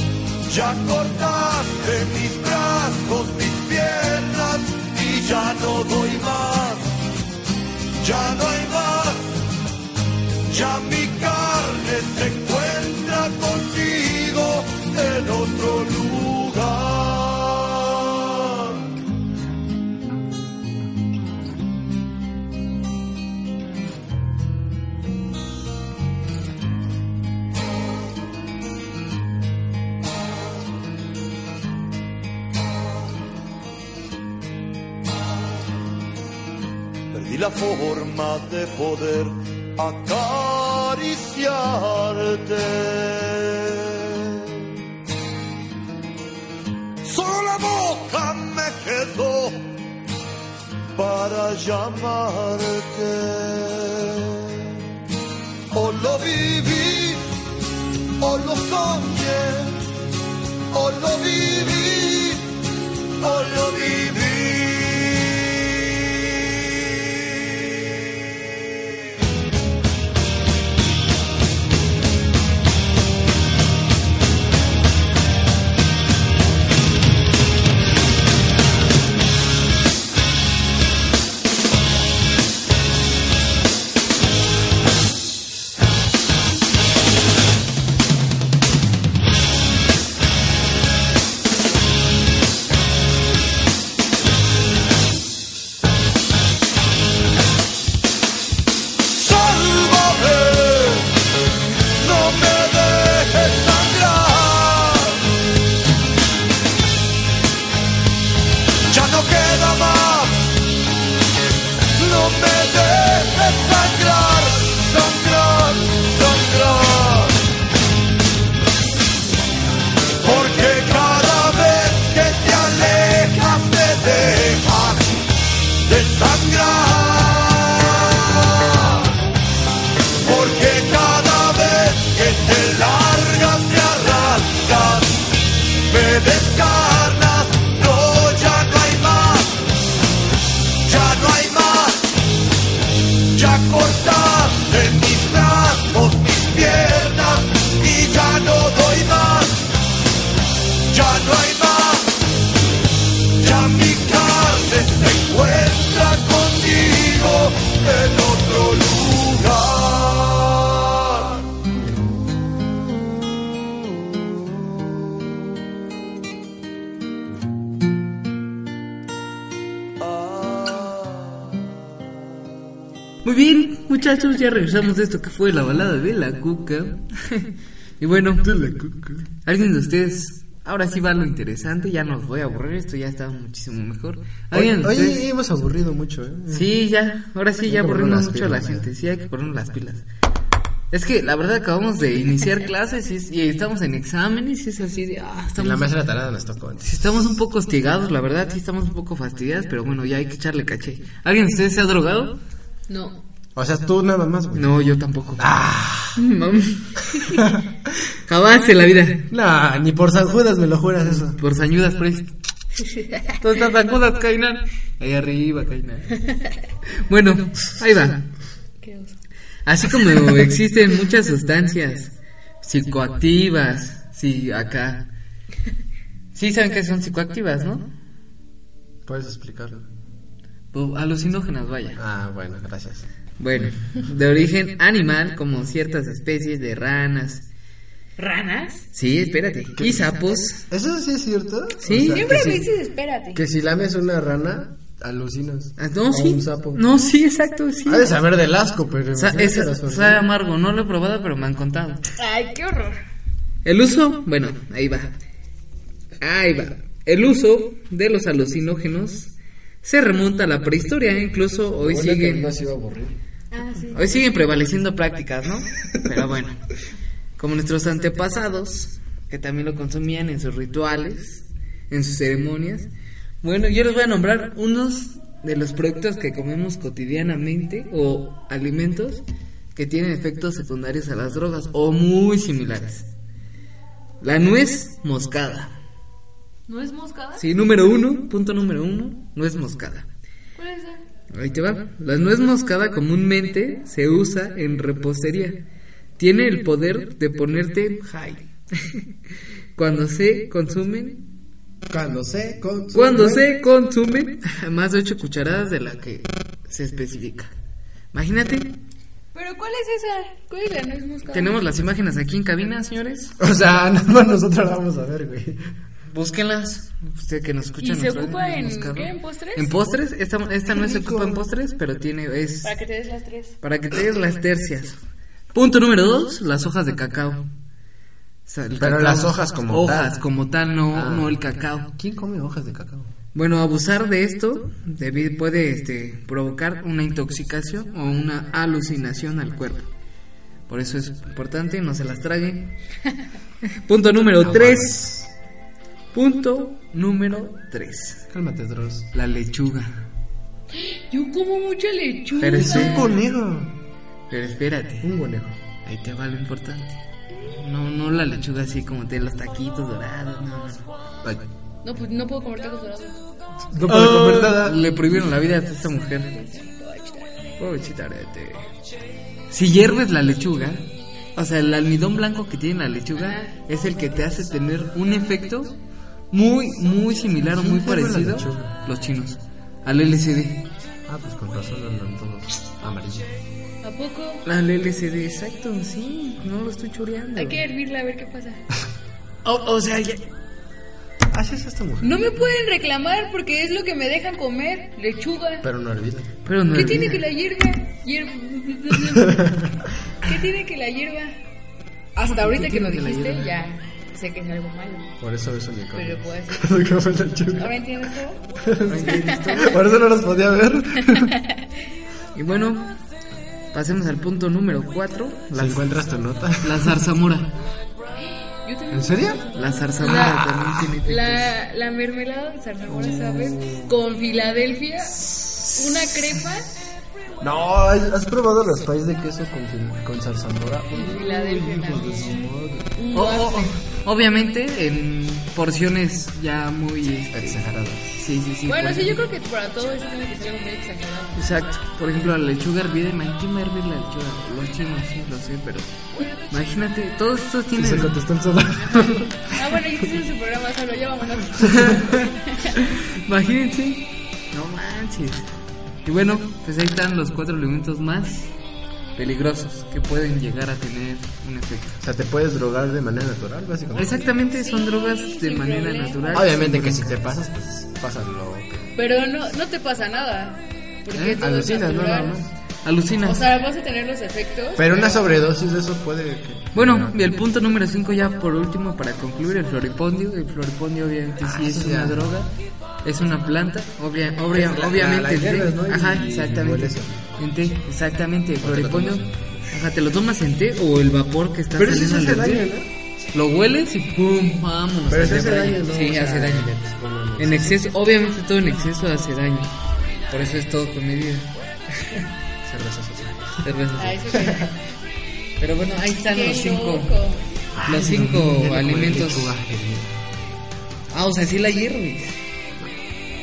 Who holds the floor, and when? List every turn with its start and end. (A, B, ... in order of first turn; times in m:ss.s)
0:00.5-0:06.9 A
0:08.0-0:09.4 A
0:10.5-0:18.8 A
0:37.1-0:44.7 A
0:47.0-0:49.7 A
0:50.9-0:54.8 A
0:55.7-0:57.2 A
0:58.2-0:59.8 A
1:00.7-1:02.5 A
1:03.2-1:06.0 A
1:39.1-1:41.2 A
1:42.0-1:45.3 A
1:48.9-1:50.6 A
1:52.0-1:57.4 A
2:00.2-2:05.3 A
2:05.8-2:09.1 A
2:10.2-2:19.7 A
2:20.8-2:22.1 A
2:23.3-2:29.7 A
2:30.9-2:32.2 A
2:33.3-2:41.5 A
2:50.0-2:51.2 A
2:53.2-2:58.5 B
2:58.4-2:59.3 C
2:59.4-3:05.2 B
3:04.5-3:06.7 C
3:06.5-3:10.0 B
3:07.6-3:08.9 C
3:10.9-3:15.9 B
3:15.6-3:17.0 C
3:16.8-3:22.4 B
3:22.9-3:23.2 D
3:23.6-3:24.7 C
3:24.5-3:25.4 B
3:25.4-3:26.2 C
3:26.2-3:27.5 B
3:27.3-3:27.6 C
3:28.2-3:29.2 B
3:29.3-3:31.4 C
3:31.0-3:32.3 B
3:33.0-3:33.2 D
3:33.4-3:36.3 B
3:37.0-3:38.2 B
3:38.8-3:39.2 D
3:39.6-3:45.0 B
3:46.3-3:47.9 B
3:49.0-3:49.8 C
3:50.7-3:52.0 B
3:52.0-3:53.0 C
3:53.4-3:57.4 B
3:58.2-3:58.9 D
3:58.9-4:00.6 B
3:59.8-4:02.7 C
4:01.8-4:02.6 B
4:01.9-4:03.4 D
4:03.3-4:06.8 C
4:05.8-4:08.2 B
4:07.8-4:10.2 C
4:09.2-4:12.0 B
4:12.2-4:13.0 D
4:13.6-4:15.1 B
4:16.2-4:19.3 B
4:19.8-4:22.5 B
4:21.8-4:23.1 C
4:23.5-4:24.1 D
4:23.9-4:26.6 B
4:27.4-4:32.9 B
4:33.4-4:39.2 B
4:39.7-4:43.1 B
4:44.2-4:45.7 B
4:46.7-4:47.4 D
4:47.4-4:50.0 B
4:50.6-4:51.0 D
4:51.3-4:55.6 B
4:56.2-4:59.0 B
4:59.8-5:01.2 B
5:01.9-5:03.4 C
5:02.9-5:07.5 B
5:08.1-5:08.7 B
5:09.3-5:11.6 D
5:11.3-5:13.3 B
5:13.4-5:15.6 C
5:16.1-5:22.7 B
5:17.8-5:19.7 D
5:20.7-5:21.4 C
5:22.6-5:23.5 D
5:23.6-5:25.0 B
5:25.5-5:27.5 B
5:28.5-5:31.9 B
5:28.8-5:30.2 C
5:30.9-5:31.3 C
5:32.0-5:33.1 C
5:33.3-5:39.9 B
5:40.7-5:42.7 B
5:43.8-5:45.0 B
5:44.4-5:45.3 C
5:46.1-5:48.2 B
5:48.3-5:49.1 C
5:49.1-5:50.0 B
5:50.7-5:53.1 D
5:52.4-5:53.1 B
5:52.5-5:53.7 C
5:54.3-5:55.1 B
5:55.0-5:55.5 C
5:55.8-6:00.9 B
6:01.8-6:03.2 D
6:03.7-6:04.8 C
6:03.9-6:06.3 B
6:06.3-6:07.3 D
6:07.6-6:08.7 B
6:09.5-6:15.7 B
6:13.2-6:13.6 D
6:16.3-6:20.6 B
6:17.5-6:18.7 C
6:21.1-6:23.3 C
6:23.8-6:24.4 D
6:24.4-6:27.6 B
6:27.4-6:28.6 D
6:29.4-6:30.2 B
6:31.3-6:32.2 C
6:32.0-6:35.6 D
6:35.6-6:36.4 C
6:36.4-6:37.2 B
6:36.7-6:39.6 D
6:39.1-6:39.8 C
6:40.2-6:41.4 D
6:42.2-6:45.1 D
6:42.2-6:43.5 B
6:45.2-6:47.7 C
6:45.9-6:46.8 D
6:47.5-6:48.4 D
6:48.6-6:51.3 C
6:48.9-6:49.8 B
6:49.0-6:49.7 D
6:51.1-6:51.5 D
6:52.3-6:52.9 B
6:53.7-6:55.8 B
6:55.5-6:57.0 C
6:56.6-6:57.5 B
6:58.6-7:06.7 D
6:58.9-6:59.4 C
6:59.5-7:01.5 B
7:02.9-7:03.9 C
7:07.4-7:12.9 C
7:10.9-7:13.7 D
7:13.1-7:17.6 B
7:17.3-7:18.2 C
7:18.2-7:19.2 B
7:18.7-7:21.5 D
7:21.4-7:28.1 B
7:26.2-7:26.5 D
7:27.8-7:29.5 C
7:28.8-7:32.8 D
7:31.7-7:32.2 B
7:32.8-7:35.5 B
7:36.0-7:38.5 B
7:39.2-7:42.0 B
7:42.0-7:44.3 C
7:43.9-7:47.2 B
7:44.5-7:46.5 D
7:46.3-7:48.9 C
7:48.9-7:52.4 D
7:51.1-7:51.4 B
7:51.4-7:52.5 C
7:52.8-7:53.5 B
7:53.2-7:55.3 D
7:54.8-7:57.2 C
7:56.7-8:02.5 B
8:01.4-8:02.3 C
8:03.0-8:12.7 B
8:04.5-8:07.3 C
8:08.6-8:09.8 C
8:11.7-8:12.9 C
8:13.3-8:16.7 B
8:15.1-8:17.8 C
8:17.4-8:19.7 B
8:20.3-8:22.2 B
8:22.6-8:23.6 C
8:23.6-8:24.2 B
8:24.0-8:24.8 D
8:24.4-8:24.7 C
8:25.6-8:27.1 B
8:26.3-8:27.4 D
8:27.8-8:30.1 C
8:27.8-8:29.5 B
8:31.1-8:32.4 B